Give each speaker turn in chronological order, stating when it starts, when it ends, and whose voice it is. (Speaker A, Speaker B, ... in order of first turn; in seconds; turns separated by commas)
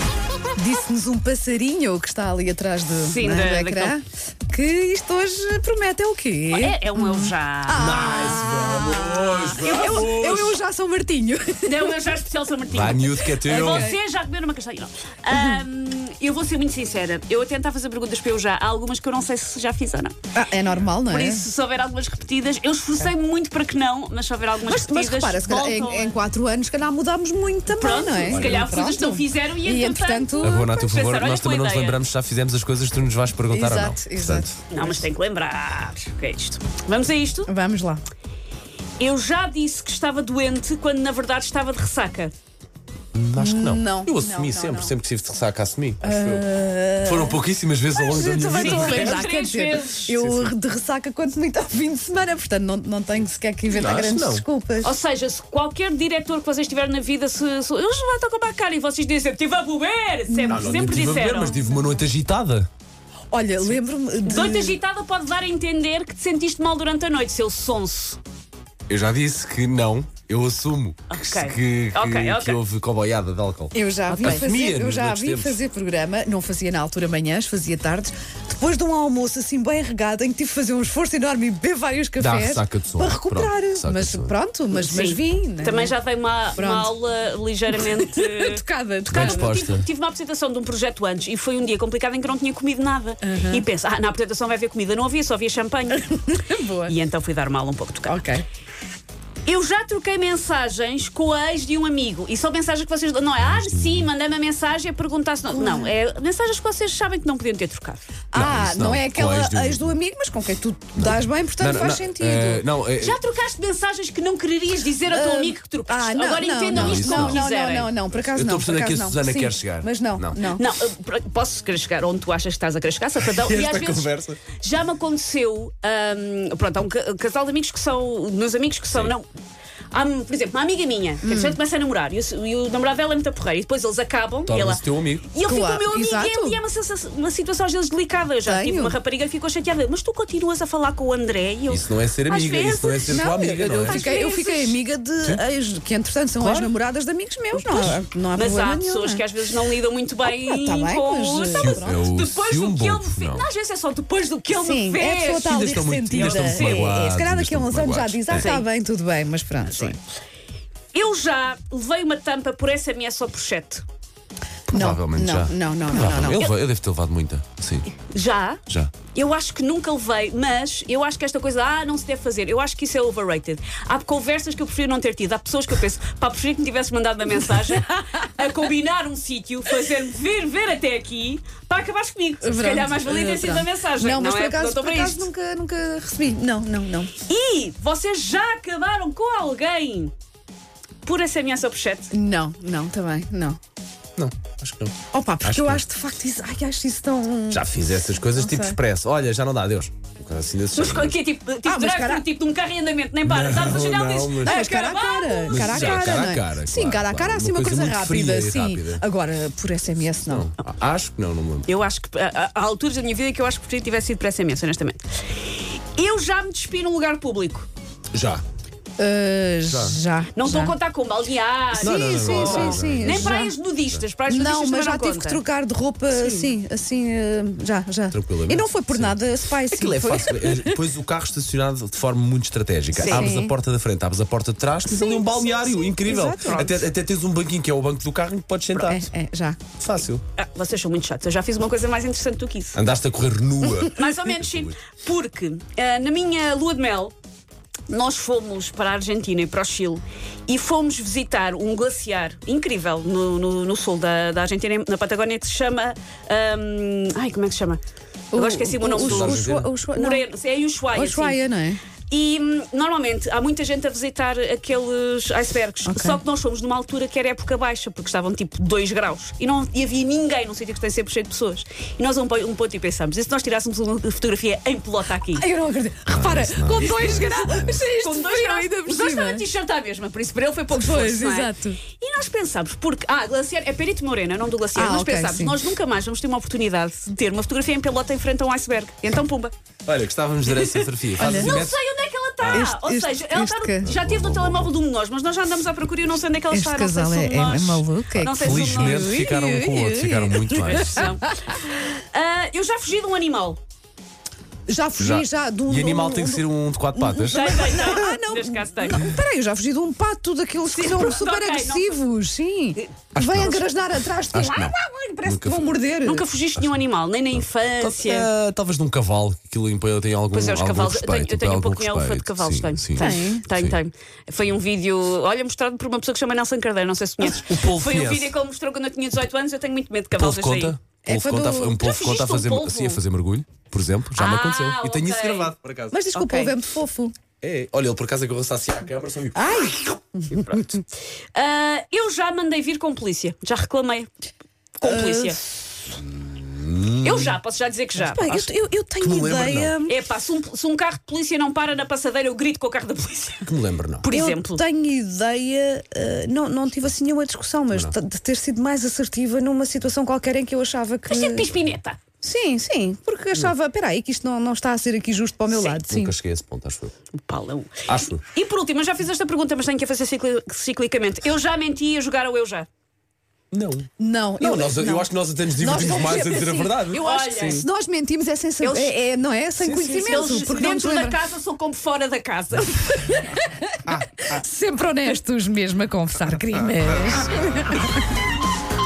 Speaker A: 0.6-12.0, Speaker B: 3.0-4.0, Speaker B: 6.5-7.9, Speaker C: 7.7-10.6, Speaker B: 9.6-10.3, Speaker B: 11.6-20.2, Speaker C: 12.7-13.9, Speaker A: 13.4-14.0, Speaker A: 15.3-15.6, Speaker A: 20.3-21.5, Speaker B: 21.1-26.2, Speaker A: 24.6-30.9, Speaker B: 27.8-32.0, Speaker C: 28.3-28.7, Speaker C: 30.4-34.6, Speaker A: 33.5-35.1, Speaker B: 34.7-37.5, Speaker A: 37.5-38.0, Speaker B: 39.0-42.3, Speaker C: 43.1-46.5, Speaker A: 43.4-45.0, Speaker A: 46.0-54.9, Speaker C: 47.0-49.3, Speaker B: 48.4-50.2, Speaker C: 50.1-50.5, Speaker C: 53.7-54.5, Speaker B: 54.8-61.6, Speaker A: 60.3-61.9, Speaker C: 60.5-62.7, Speaker A: 63.3-64.8, Speaker B: 64.3-68.2, Speaker C: 68.9-75.6, Speaker B: 71.1-72.6, Speaker A: 73.7-86.0, Speaker B: 74.1-74.5, Speaker C: 82.2-84.3, Speaker B: 84.7-96.1, Speaker A: 86.6-86.9, Speaker A: 87.7-89.4, Speaker C: 89.1-89.9, Speaker A: 93.2-93.7, Speaker A: 95.9-97.0, Speaker B: 96.8-98.2, Speaker A: 98.1-98.5, Speaker B: 99.5-108.1, Speaker C: 103.4-104.1, Speaker A: 105.5-105.9, Speaker A: 108.3-112.7, Speaker C: 108.3-110.0, Speaker C: 111.0-113.2, Speaker B: 113.0-117.9, Speaker A: 115.1-120.6, Speaker C: 116.7-117.4, Speaker C: 118.2-120.4, Speaker B: 120.5-129.3, Speaker C: 123.2-124.4, Speaker B: 129.9-144.8, Speaker A: 131.2-131.6, Speaker C: 134.5-135.3, Speaker A: 135.4-136.6, Speaker A: 138.4-139.0, Speaker C: 141.7-144.2, Speaker A: 143.1-149.3, Speaker C: 146.4-146.7, Speaker B: 147.5-155.6, Speaker A: 150.2-152.1, Speaker C: 151.6-153.5, Speaker A: 154.5-160.0, Speaker C: 155.2-158.5, Speaker B: 156.1-156.9, Speaker B: 158.3-158.7, Speaker B: 159.7-160.0, Speaker B: 160.9-163.8, Speaker C: 164.7-167.9, Speaker A: 164.7-166.5, Speaker B: 168.0-168.6, Speaker B: 169.1-185.3, Speaker A: 177.7-178.1, Speaker A: 182.4-187.1, Speaker B: 187.2-190.1, Speaker B: 191.0-192.1, Speaker A: 192.1-193.6, Speaker C: 194.2-195.8, Speaker A: 195.1-198.8, Speaker C: 197.5-201.2, Speaker B: 200.8-206.2, Speaker A: 201.6-202.2, Speaker C: 203.2-204.6, Speaker A: 204.4-210.5, Speaker C: 205.5-209.0, Speaker C: 210.2-211.7, Speaker B: 211.7-217.7, Speaker C: 218.1-218.4, Speaker A: 219.0-220.8, Speaker C: 219.7-220.6, Speaker B: 220.3-225.4, Speaker A: 221.8-223.5, Speaker C: 221.8-224.0, Speaker A: 224.3-230.8, Speaker B: 226.1-226.5, Speaker C: 228.1-239.0, Speaker B: 232.9-233.3, Speaker A: 233.0-233.5, Speaker A: 234.9-236.8, Speaker A: 238.8-239.6, Speaker C: 239.8-240.2, Speaker B: 240.4-242.8, Speaker C: 242.8-244.7, Speaker B: 243.9-247.1, Speaker B: 247.9-257.8, Speaker A: 258.3-260.2, Speaker B: 258.3-261.4, Speaker C: 258.9-259.7, Speaker A: 260.9-261.8, Speaker B: 262.1-275.4, Speaker A: 265.9-266.2, Speaker A: 275.3-279.4, Speaker C: 276.1-277.8, Speaker B: 276.8-289.5, Speaker A: 280.7-281.8, Speaker A: 284.8-285.6, Speaker C: 289.9-291.8, Speaker A: 291.2-291.5, Speaker B: 291.2-299.1, Speaker C: 292.4-292.7, Speaker A: 292.5-293.9, Speaker C: 293.8-294.7, Speaker A: 296.5-301.3, Speaker C: 298.1-301.1, Speaker B: 300.5-303.6, Speaker A: 304.7-316.3, Speaker C: 305.0-307.8, Speaker B: 307.3-309.0, Speaker B: 310.7-312.0, Speaker C: 313.1-313.7, Speaker C: 314.3-315.8, Speaker B: 316.1-318.3, Speaker C: 317.3-323.8, Speaker B: 320.3-330.8, Speaker A: 323.0-323.4, Speaker C: 327.2-328.4, Speaker C: 330.1-336.0, Speaker A: 331.1-331.8, Speaker B: 331.8-333.0, Speaker B: 334.1-335.5, Speaker A: 335.9-337.1, Speaker B: 336.1-336.5, Speaker C: 337.4-339.7, Speaker A: 339.3-340.6, Speaker B: 341.4-344.1, Speaker B: 344.8-345.4, Speaker A: 344.8-345.7, Speaker C: 346.0-347.4, Speaker B: 347.0-348.5, Speaker A: 347.9-350.0, Speaker C: 349.0-349.8, Speaker B: 349.9-353.5, Speaker C: 353.4-354.0, Speaker B: 354.0-354.6, Speaker A: 354.1-361.5, Speaker B: 361.1-362.0, Speaker A: 362.2-366.1, Speaker C: 365.5-366.9, Speaker B: 367.2-372.7, Speaker C: 367.9-368.2, Speaker C: 373.5-377.7, Speaker A: 374.0-381.2, Speaker B: 376.9-377.7, Speaker B: 378.6-378.9, Speaker C: 379.6-380.8, Speaker B: 380.1-383.2, Speaker A: 383.9-388.0